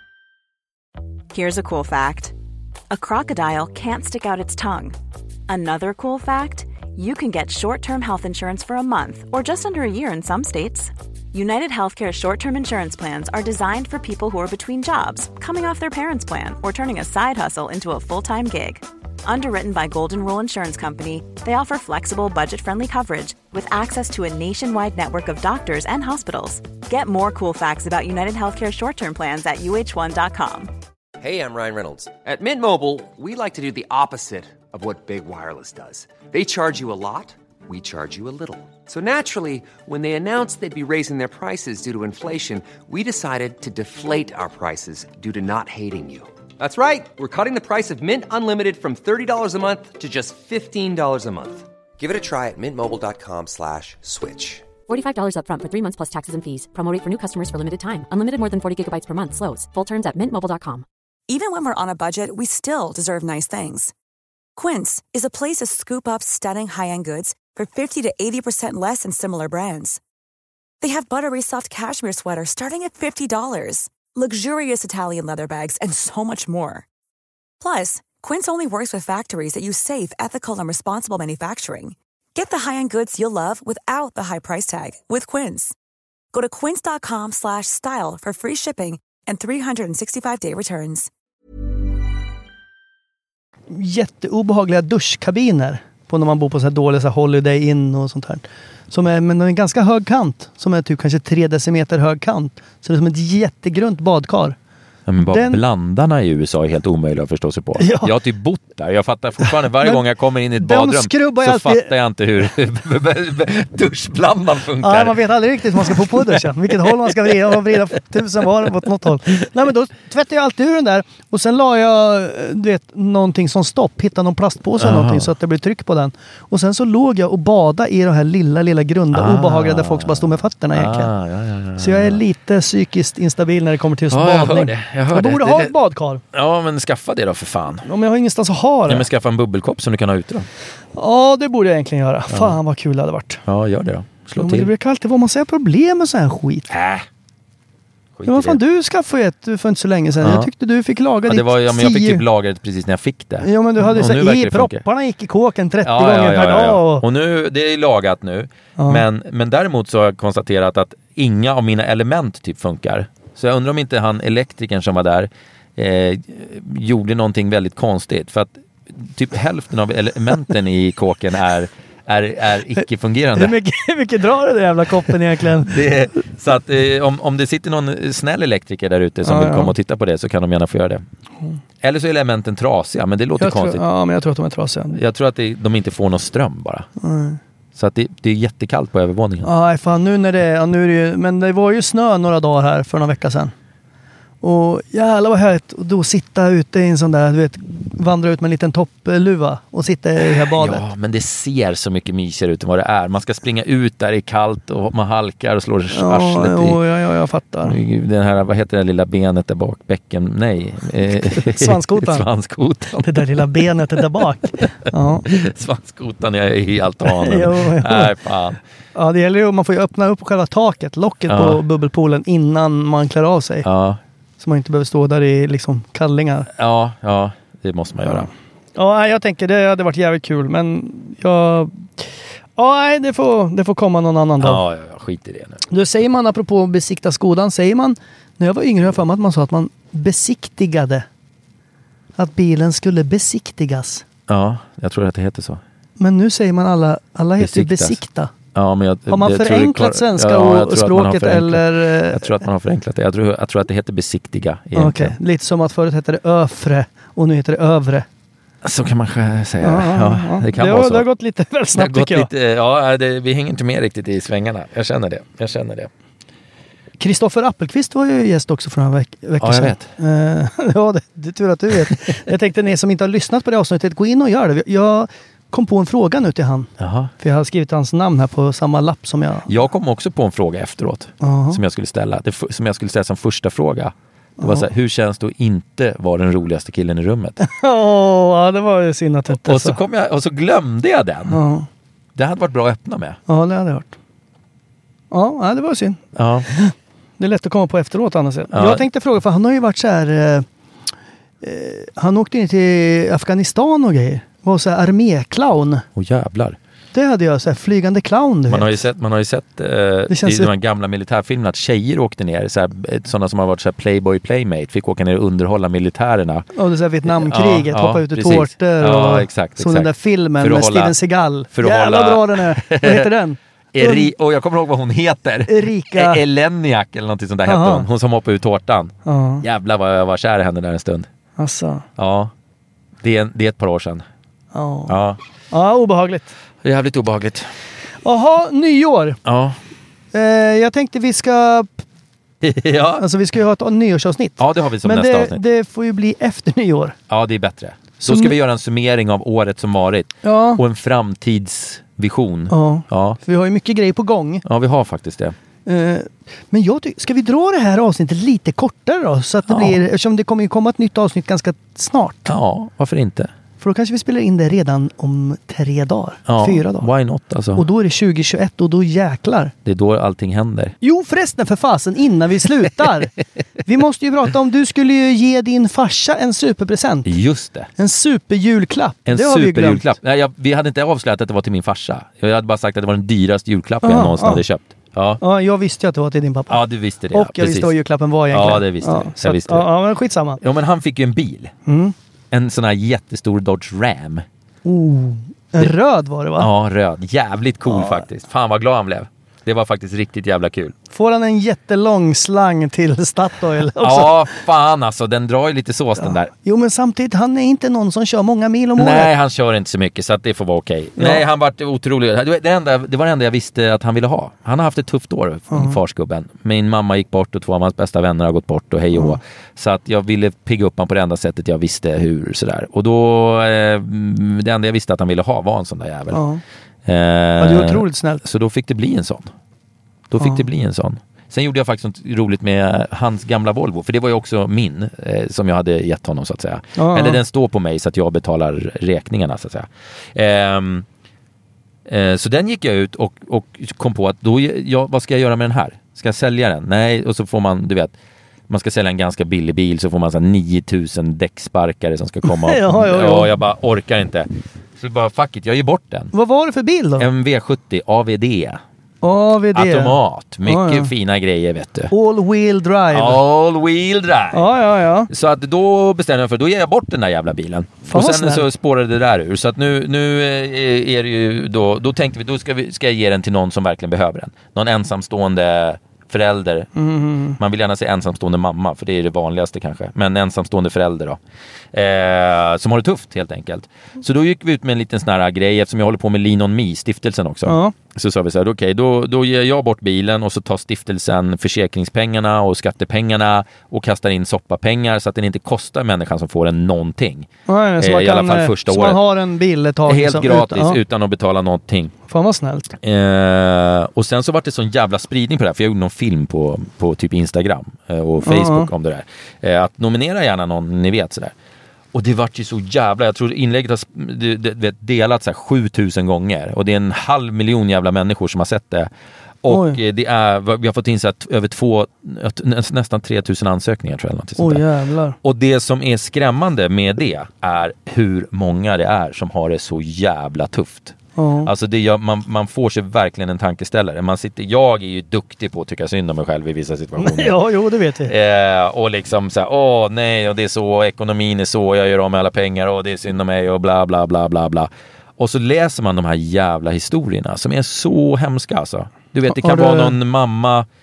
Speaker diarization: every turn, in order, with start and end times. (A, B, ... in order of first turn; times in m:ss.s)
0:01.3-0:02.3 A
0:02.9-0:05.0 A
0:05.5-0:30.7 A
0:31.2-0:54.7 B
0:54.9-1:00.8 C
1:01.3-1:03.9 D
1:04.6-1:10.0 D
1:10.8-1:16.9 D
1:17.6-1:25.7 D
1:26.3-1:31.1 D
1:33.7-1:44.6 E
1:45.1-1:55.2 F
1:45.2-1:45.6 E
1:47.8-1:48.1 E
1:50.6-1:51.9 E
1:54.8-2:11.1 E
1:55.7-1:57.8 F
2:04.8-2:05.3 F
2:09.1-2:12.2 F
2:11.8-2:16.2 E
2:14.1-2:15.7 F
2:16.3-2:17.9 F
2:17.8-2:19.1 E
2:18.9-2:20.5 F
2:21.0-2:23.4 E
2:22.3-2:22.6 F
2:23.5-2:24.7 F
2:24.4-2:26.7 E
2:26.7-2:27.1 F
2:28.2-2:28.6 F
2:28.3-2:32.2 E
2:30.2-2:30.5 F
2:31.3-2:34.8 F
2:33.4-2:37.0 E
2:35.8-2:53.6 F
2:38.8-2:39.0 E
2:53.4-2:55.8 E
2:55.6-3:01.0 F
2:59.2-2:59.7 E
3:01.8-3:03.8 F
3:03.4-3:05.0 E
3:04.9-3:06.9 F
3:07.0-3:07.4 E
3:07.8-3:09.5 F
3:09.4-3:13.5 E
3:14.4-3:20.8 E
3:20.3-3:26.8 F
3:25.9-3:27.8 E
3:27.6-3:33.5 F
3:31.2-3:32.3 E
3:33.0-3:35.3 E
3:35.3-3:38.6 F
3:37.0-3:38.1 E
3:39.0-3:43.7 E
3:41.3-3:41.6 F
3:43.6-3:44.0 F
3:44.4-3:46.5 E
3:46.6-3:48.3 F
3:48.1-3:52.0 E
3:52.6-3:54.6 E
3:54.4-3:55.6 F
3:55.7-4:01.1 E
4:02.2-4:04.0 E
4:04.3-4:05.6 F
4:06.0-4:08.3 E
4:07.4-4:08.0 F
4:08.5-4:15.2 F
4:09.1-4:12.4 E
4:14.8-4:18.1 E
4:18.6-4:21.1 F
4:19.6-4:22.3 E
4:21.7-4:25.9 F
4:27.0-4:39.5 E
4:29.4-4:29.9 F
4:36.8-4:37.1 F
4:39.5-4:47.4 F
4:41.2-4:41.6 E
4:44.4-4:44.7 E
4:47.4-4:49.8 E
4:49.3-4:51.4 F
4:51.3-4:51.7 E
4:52.2-4:53.2 F
4:53.3-4:54.0 E
4:55.1-5:00.5 E
4:56.2-4:56.5 F
4:58.5-4:58.8 F
5:01.4-5:05.9 E
5:06.0-5:06.6 F
5:06.9-5:08.8 E
5:08.5-5:16.5 F
5:10.1-5:10.5 E
5:16.6-5:24.1 E
5:17.0-5:21.0 F
5:21.5-5:23.1 F
5:23.7-5:31.1 F
5:25.5-5:26.2 E
5:27.4-5:27.9 E
5:29.1-5:29.4 E
5:31.4-5:31.9 E
5:32.0-5:32.3 F
5:33.0-5:34.0 F
5:34.5-5:35.0 E
5:34.9-5:35.2 F
5:35.5-5:36.3 E
5:36.6-5:37.5 F
5:38.0-5:39.2 E
5:39.2-5:39.6 F
5:40.1-5:41.8 E
5:42.4-5:43.0 F
5:43.0-5:47.0 E
5:44.4-5:45.4 F
5:47.1-5:53.2 F
5:48.0-5:48.4 E
5:50.2-5:50.6 E
5:52.5-5:54.4 E
5:54.4-5:55.4 F
5:55.7-6:02.4 E
5:59.5-5:59.8 F
6:02.3-6:03.3 F
6:03.6-6:06.9 E
6:06.3-6:07.7 F
6:07.6-6:09.5 E
6:09.6-6:10.8 F
6:10.8-6:13.1 E
6:13.6-6:17.1 E
6:17.0-6:17.7 F
6:17.8-6:19.9 E
6:19.1-6:25.2 F
6:23.8-6:24.4 E
6:25.2-6:26.6 E
6:26.5-6:27.7 F
6:27.1-6:30.4 E
6:28.3-6:29.7 F
6:30.4-6:31.5 F
6:31.7-6:32.0 E
6:32.3-6:34.2 F
6:34.6-6:36.5 E
6:36.4-6:40.8 F
6:37.7-6:38.0 E
6:40.9-6:44.3 E
6:43.8-6:46.3 F
6:46.0-6:49.1 E
6:48.8-7:06.2 F
6:51.0-6:51.2 E
6:55.5-6:55.8 E
7:06.1-7:06.4 E
7:06.8-7:09.3 F
7:07.4-7:08.2 E
7:10.1-7:20.9 F
7:16.8-7:17.2 E
7:21.9-7:27.9 F
7:28.5-7:36.1 F
7:32.3-7:33.3 E
7:36.1-7:37.1 E
7:37.0-7:38.6 F
7:39.0-7:40.9 E
7:39.5-7:41.9 F
7:41.9-7:43.2 E
7:42.9-7:44.5 F
7:44.3-7:45.1 E
7:45.1-7:56.7 F
7:47.9-7:48.4 E
7:56.8-7:57.4 E
7:57.4-8:01.2 F
8:01.7-8:19.0 F
8:07.5-8:07.7 E
8:17.5-8:20.8 E
8:19.9-8:21.9 F
8:22.1-8:22.7 E
8:22.8-8:31.3 F
8:28.2-8:28.7 E
8:31.9-8:38.9 F
8:39.4-8:44.6 F
8:39.5-8:39.8 E
8:44.4-8:45.2 E
8:45.2-8:57.4 F
8:51.2-8:51.5 E
8:57.0-8:58.1 E
8:58.0-9:10.7 F
9:09.3-9:10.0 E